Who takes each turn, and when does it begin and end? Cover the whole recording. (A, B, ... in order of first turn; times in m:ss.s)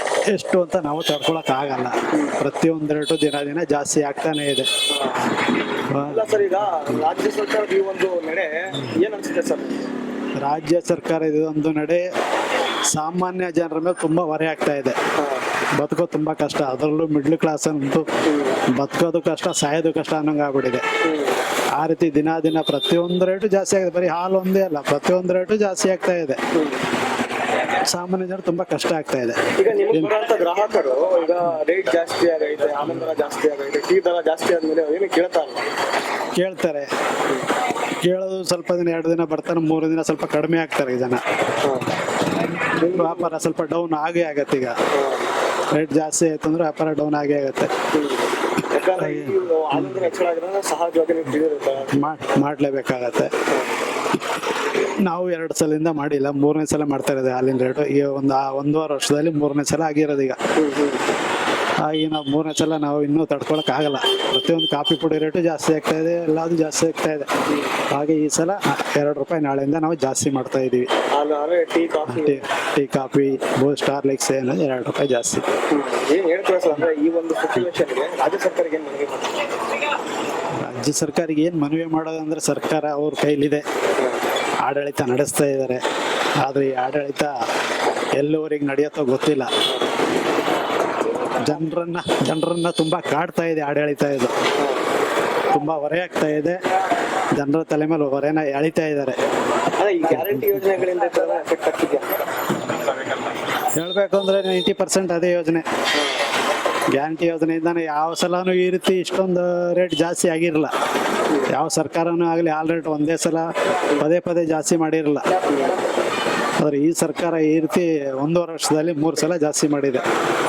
0:00.3-0:04.7 A
0:02.1-0:02.4 B
0:04.9-0:05.3 B
0:05.9-0:06.2 A
0:06.0-0:09.9 B
0:10.4-0:12.1 A
0:12.9-0:15.0 A
0:15.2-0:15.5 B
0:15.8-0:18.1 A
0:18.2-0:18.6 B
0:18.7-0:20.8 A
0:21.0-0:21.4 B
0:21.8-0:26.4 A
0:26.5-0:26.8 B
0:27.7-0:30.1 A
0:29.6-0:35.6 B
0:36.4-0:36.9 A
0:38.0-0:41.2 A
0:41.6-0:41.9 B
0:42.8-0:44.8 A
0:42.8-0:43.3 B
0:44.9-0:45.3 B
0:45.7-0:47.7 A
0:47.9-0:52.2 B
0:49.0-0:50.1 A
0:51.9-0:53.3 A
0:53.5-0:53.8 B
0:55.0-1:00.4 A
1:00.6-1:01.0 B
1:01.8-1:07.3 A
1:07.4-1:07.7 B
1:07.9-1:10.9 A
1:11.1-1:12.4 B
1:12.1-1:15.4 A
1:15.7-1:19.6 B
1:20.6-1:23.6 A
1:24.0-1:24.2 B
1:24.6-1:25.8 A
1:26.4-1:27.3 A
1:28.2-1:29.5 A
1:29.6-1:29.9 B
1:31.2-1:31.6 B
1:31.3-1:34.3 A
1:34.6-1:34.9 B
1:35.5-1:36.6 A
1:37.3-1:39.2 A
1:39.8-1:42.2 B
1:40.1-1:40.6 A
1:43.8-1:45.6 A
1:45.9-1:46.3 B
1:46.9-1:50.7 A
1:51.5-1:55.4 A
1:55.5-1:55.8 B
1:56.6-2:00.0 A